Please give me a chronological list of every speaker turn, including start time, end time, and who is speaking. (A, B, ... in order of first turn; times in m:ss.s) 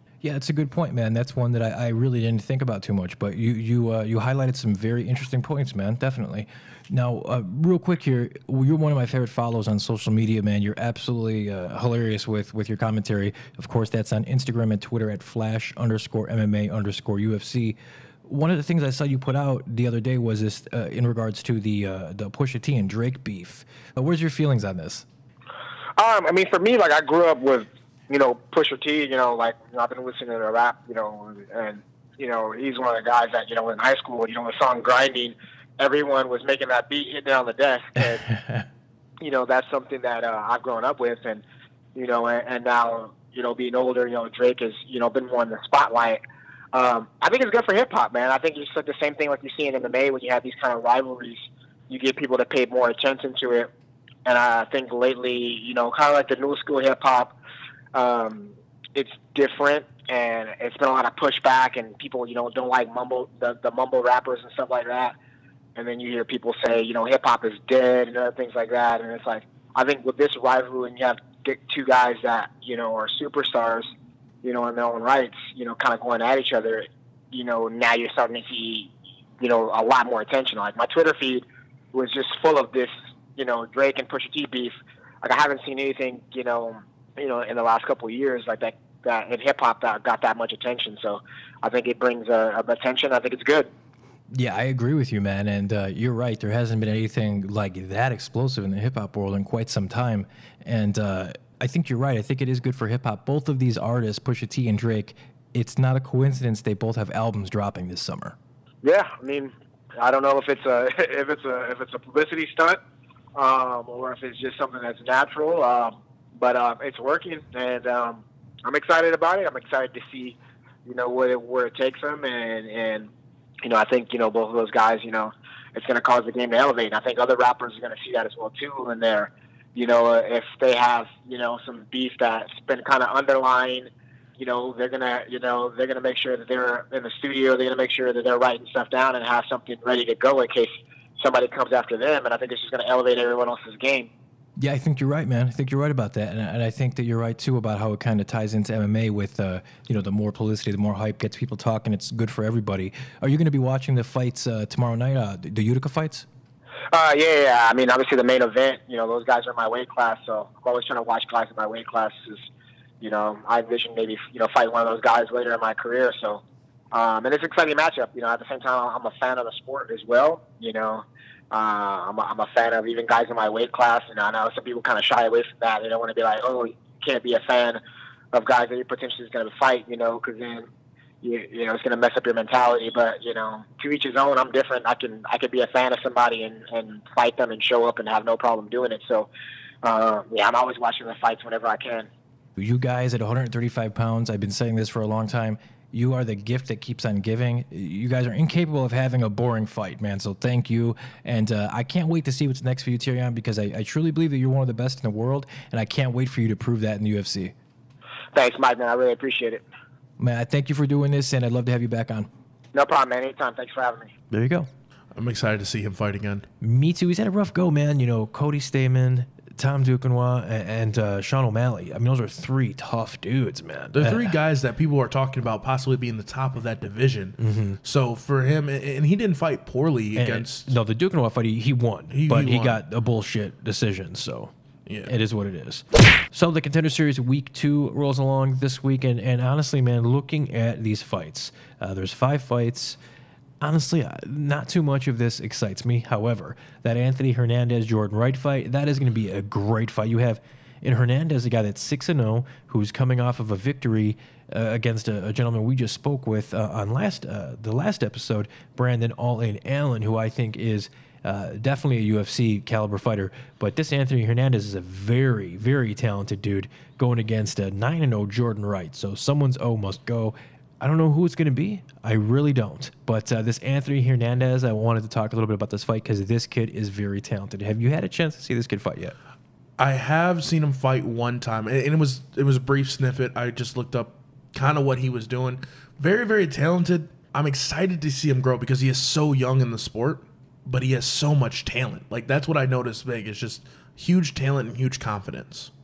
0:00.2-0:25.1 A
0:26.0-0:38.2 B
0:38.4-0:38.7 A
0:39.2-0:41.4 B
0:42.0-0:46.2 B
0:46.7-0:53.7 B
0:54.2-0:57.4 B
0:57.9-1:05.2 B
1:05.8-1:13.9 B
1:14.4-1:33.7 B
1:34.3-1:48.4 A
1:48.8-1:52.8 B
1:53.4-2:03.1 B
2:03.6-2:24.1 B
2:24.6-2:36.3 A
2:36.9-2:42.5 B
2:43.0-2:57.8 B
2:58.3-3:00.7 B
3:01.2-3:09.3 B
3:09.8-3:12.1 B
3:12.6-3:27.6 A
3:28.3-3:29.6 B
3:30.2-3:32.3 A
3:32.7-3:34.1 B
3:34.3-3:34.7 A
3:35.2-3:36.5 C
3:36.6-3:44.4 A
3:44.0-3:50.7 C
3:47.4-3:47.8 A
3:50.2-3:54.5 A
3:52.1-3:52.8 C
3:54.9-3:55.1 C
3:55.0-4:03.0 A
4:03.6-4:39.2 A
4:39.8-4:55.7 C